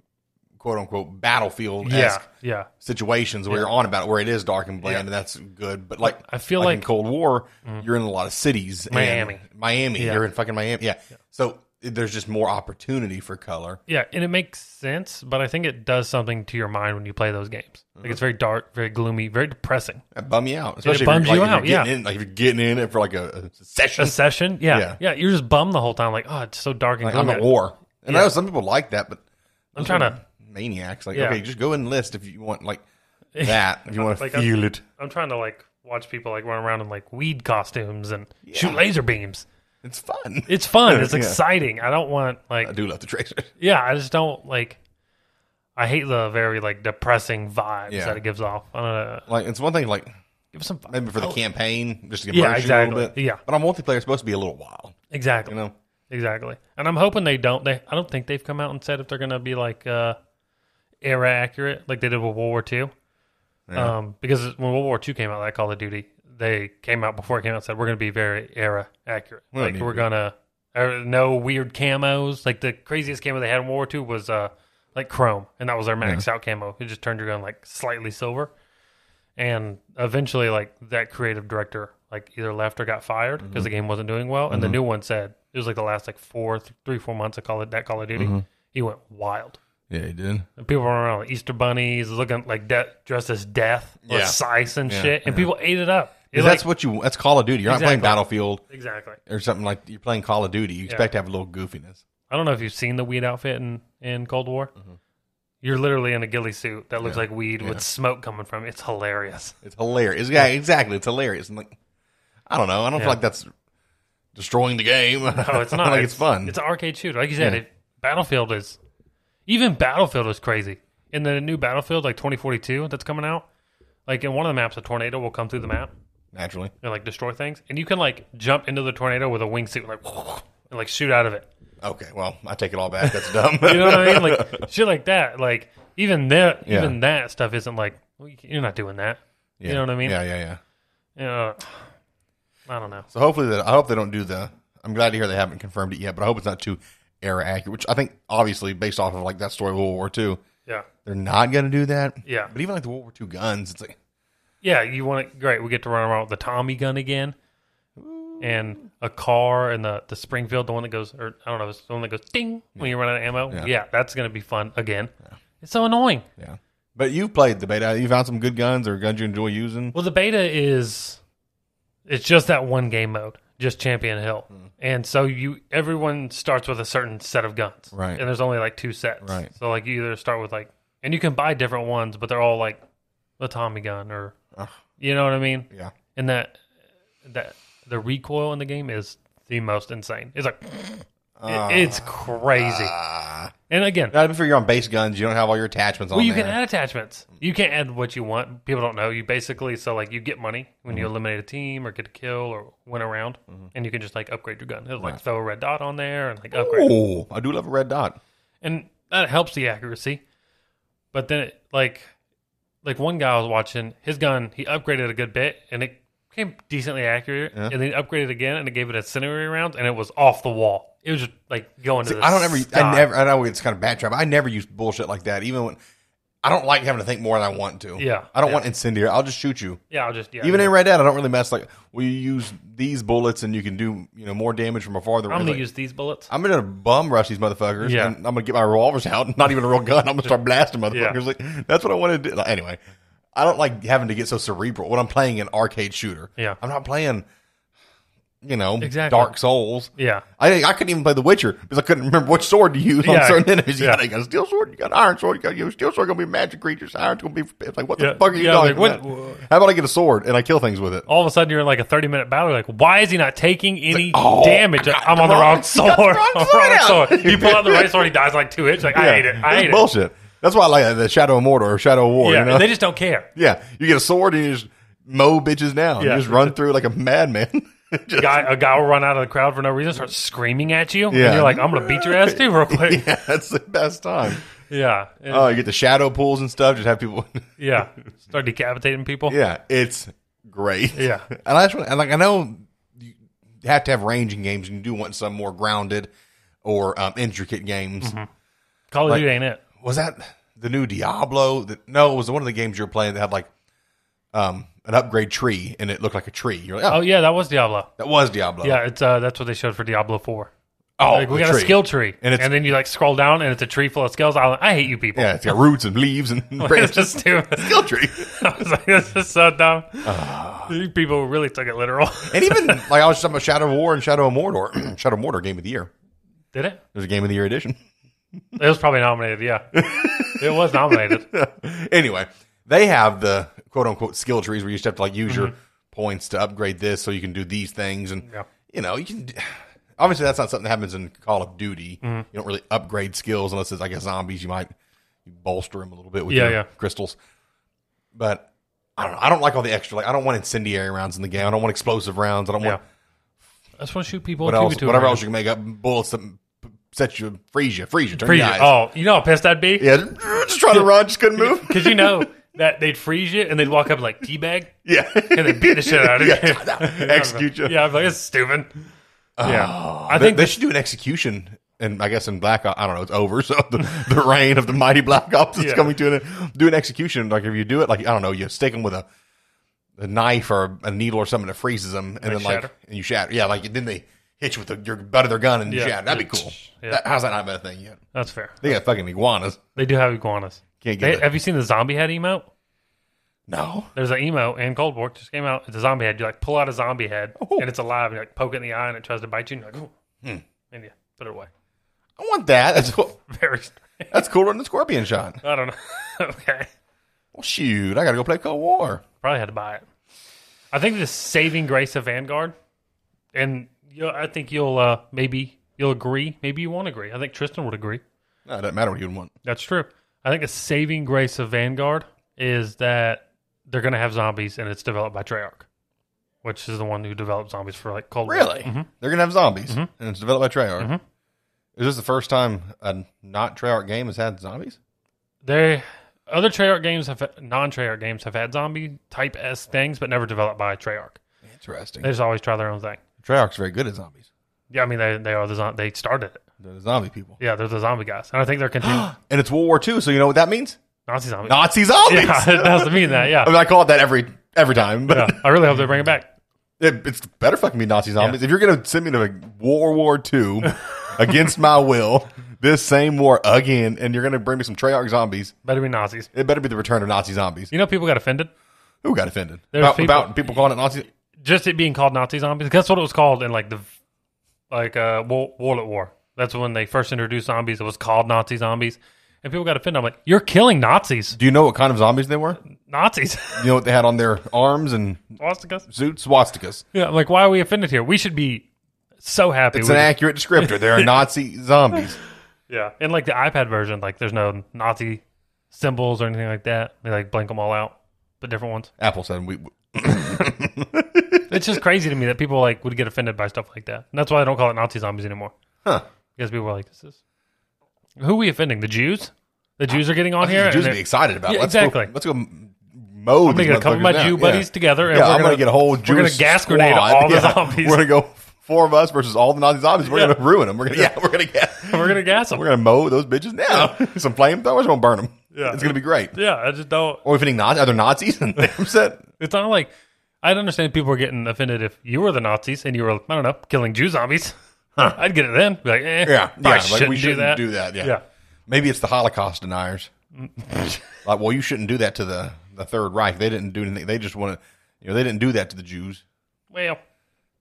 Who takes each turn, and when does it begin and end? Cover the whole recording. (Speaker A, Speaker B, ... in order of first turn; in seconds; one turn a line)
Speaker A: 0.6-2.2
Speaker B: 1.8-2.7
Speaker A: 2.8-13.8
Speaker B: 6.0-6.9
Speaker B: 8.9-9.4
Speaker B: 10.0-10.2
Speaker B: 13.9-20.0
Speaker A: 20.1-25.0
Speaker B: 20.8-21.9
Speaker B: 24.0-27.5
Speaker A: 27.0-29.2
Speaker B: 28.1-28.3
Speaker B: 29.8-30.2
Speaker A: 29.8-32.8
Speaker B: 31.1-31.4
Speaker B: 33.3-39.5
Speaker A: 33.4-34.8
Speaker A: 38.4-38.8
Speaker A: 39.8-41.4
Speaker B: 40.5-42.7
Speaker A: 42.6-43.5
Speaker B: 43.6-44.8
Speaker B: 45.8-49.3
Speaker A: 47.9-48.2
Speaker A: 49.3-50.1
Speaker B: 50.5-51.4
Speaker A: 50.9-55.0
Speaker B: 52.3-53.4
Speaker B: 55.1-55.6
Speaker A: 55.5-55.7
Speaker B: 56.1-60.2
Speaker B: 61.0-62.9
Speaker A: 63.7-63.9
Speaker B: 63.8-78.5
Speaker A: 69.5-70.1
Speaker B: 79.4-89.6
Speaker A: 83.4-83.7
Speaker A: 84.5-84.8
Speaker A: 88.2-88.4
Speaker A: 89.9-90.5
Speaker B: 90.6-96.6
Speaker A: 94.1-95.5
Speaker A: 96.3-98.6
Speaker B: 97.7-99.2
Speaker A: 99.2-102.0
Speaker B: 102.3-104.7
Speaker B: 105.6-109.6
Speaker A: 107.0-107.8
Speaker A: 109.6-111.8
Speaker A: 112.5-113.5
Speaker A: 114.3-116.5
Speaker B: 115.3-118.8
Speaker B: 119.5-123.5
Speaker B: 124.1-125.9
Speaker A: 126.3-126.7
Speaker B: 126.8-131.5
Speaker A: 131.8-134.6
Speaker B: 133.0-140.2
Speaker A: 136.7-137.0
Speaker A: 139.6-140.6
Speaker B: 141.2-141.8
Speaker B: 142.7-143.1
Speaker A: 143.1-150.4
Speaker A: 151.1-154.0
Speaker B: 152.2-152.5
Speaker B: 154.6-157.3
Speaker A: 158.0-158.7
Speaker B: 158.4-166.3
Speaker A: 166.4-169.9
Speaker B: 169.9-171.2
Speaker B: 172.1-182.8
Speaker A: 177.9-178.2
Speaker A: 179.2-179.5
Speaker B: 183.4-184.3
Speaker B: 185.0-186.6
Speaker B: 187.2-190.9
Speaker A: 191.4-193.5
Speaker B: 191.5-192.9
Speaker B: 193.7-194.1
Speaker A: 194.1-196.6
Speaker B: 196.1-206.9
Speaker A: 206.5-208.2
Speaker B: 208.6-210.2
Speaker B: 211.1-212.1
Speaker B: 212.8-223.1
Speaker A: 222.0-225.8
Speaker A: 226.4-229.8
Speaker B: 228.0-228.7
Speaker B: 229.9-230.7
Speaker A: 230.4-235.7
Speaker B: 235.3-236.3
Speaker A: 236.3-242.8
Speaker B: 237.8-238.2
Speaker B: 240.9-241.2
Speaker A: 243.3-247.2
Speaker A: 248.4-261.1
Speaker B: 248.8-249.3
Speaker B: 250.0-250.2
Speaker B: 253.0-254.0
Speaker B: 258.0-259.4
Speaker B: 261.1-269.9
Speaker A: 263.9-268.1
Speaker A: 268.9-272.7
Speaker B: 272.2-273.3
Speaker A: 273.4-278.5
Speaker B: 276.0-276.6
Speaker B: 278.2-283.1
Speaker A: 281.1-284.4
Speaker B: 284.6-285.5
Speaker A: 285.3-287.5
Speaker B: 287.6-289.4
Speaker A: 289.3-296.1
Speaker B: 290.9-291.3
Speaker A: 296.6-298.1
Speaker B: 298.0-298.3
Speaker B: 298.9-299.6
Speaker A: 299.8-303.5
Speaker A: 304.3-307.0
Speaker B: 306.9-307.9
Speaker A: 308.0-308.8
Speaker B: 308.6-310.5
Speaker A: 311.0-312.5
Speaker B: 311.1-315.6
Speaker A: 315.1-318.3
Speaker B: 316.6-322.9
Speaker A: 320.0-320.8
Speaker A: 322.3-325.9
Speaker B: 326.5-326.8
Speaker A: 326.9-327.8
Speaker B: 328.6-331.3
Speaker A: 329.7-344.7
Speaker B: 335.3-335.5
Speaker B: 342.0-342.3
Speaker A: 345.2-347.2
Speaker B: 346.3-346.7
Speaker A: 348.1-352.8
Speaker B: 353.8-355.2
Speaker A: 354.4-358.8
Speaker B: 358.1-359.9
Speaker A: 359.8-362.3
Speaker B: 360.7-364.7
Speaker A: 364.8-367.8
Speaker B: 365.3-368.9
Speaker A: 369.4-379.1
Speaker B: 369.4-370.6
Speaker B: 375.6-375.9
Speaker A: 380.0-388.0
Speaker B: 382.2-382.7
Speaker B: 385.7-387.0
Speaker B: 388.1-388.8
Speaker A: 388.6-389.6
Speaker B: 389.8-392.5
Speaker A: 390.8-391.3
Speaker A: 393.5-393.9
Speaker B: 393.9-399.9
Speaker A: 397.4-397.7
Speaker B: 400.7-401.5
Speaker A: 402.2-403.1
Speaker B: 402.9-404.1
Speaker A: 404.1-405.4
Speaker B: 405.4-406.7
Speaker A: 407.3-409.0
Speaker B: 409.2-409.8
Speaker B: 410.7-412.5
Speaker B: 413.3-418.0
Speaker A: 418.4-419.3
Speaker B: 419.4-425.7
Speaker B: 426.4-428.9
Speaker A: 428.3-430.9
Speaker A: 431.8-434.8
Speaker B: 435.4-441.2
Speaker A: 441.4-442.1
Speaker B: 442.0-443.0
Speaker A: 443.2-444.3
Speaker B: 444.7-446.4
Speaker A: 446.6-447.4
Speaker B: 447.4-449.1
Speaker A: 448.8-450.8
Speaker B: 451.1-453.6
Speaker A: 451.4-455.7
Speaker B: 455.1-456.3
Speaker A: 456.8-465.5
Speaker B: 465.6-466.3
Speaker A: 466.3-467.7
Speaker B: 467.7-468.5
Speaker A: 469.0-471.1
Speaker B: 469.7-470.5
Speaker B: 471.4-473.9
Speaker B: 474.7-481.4
Speaker A: 481.3-482.6
Speaker B: 482.7-483.7
Speaker A: 483.5-485.3
Speaker B: 485.4-485.9
Speaker A: 485.9-486.8
Speaker B: 486.9-488.7
Speaker B: 489.2-491.1
Speaker A: 489.7-492.2
Speaker B: 492.7-498.9
Speaker A: 499.0-501.8
Speaker B: 501.5-505.5
Speaker B: 506.4-507.2
Speaker B: 508.2-512.1
Speaker A: 510.4-526.3
Speaker B: 513.4-518.1
Speaker B: 520.1-520.4
Speaker B: 521.9-522.7
Speaker B: 525.5-527.2
Speaker A: 527.2-529.2
Speaker B: 529.4-529.9
Speaker B: 530.4-534.5
Speaker B: 535.1-538.2
Speaker A: 536.2-538.1
Speaker A: 538.7-540.1
Speaker B: 540.4-541.1
Speaker A: 541.2-546.2
Speaker B: 546.7-547.0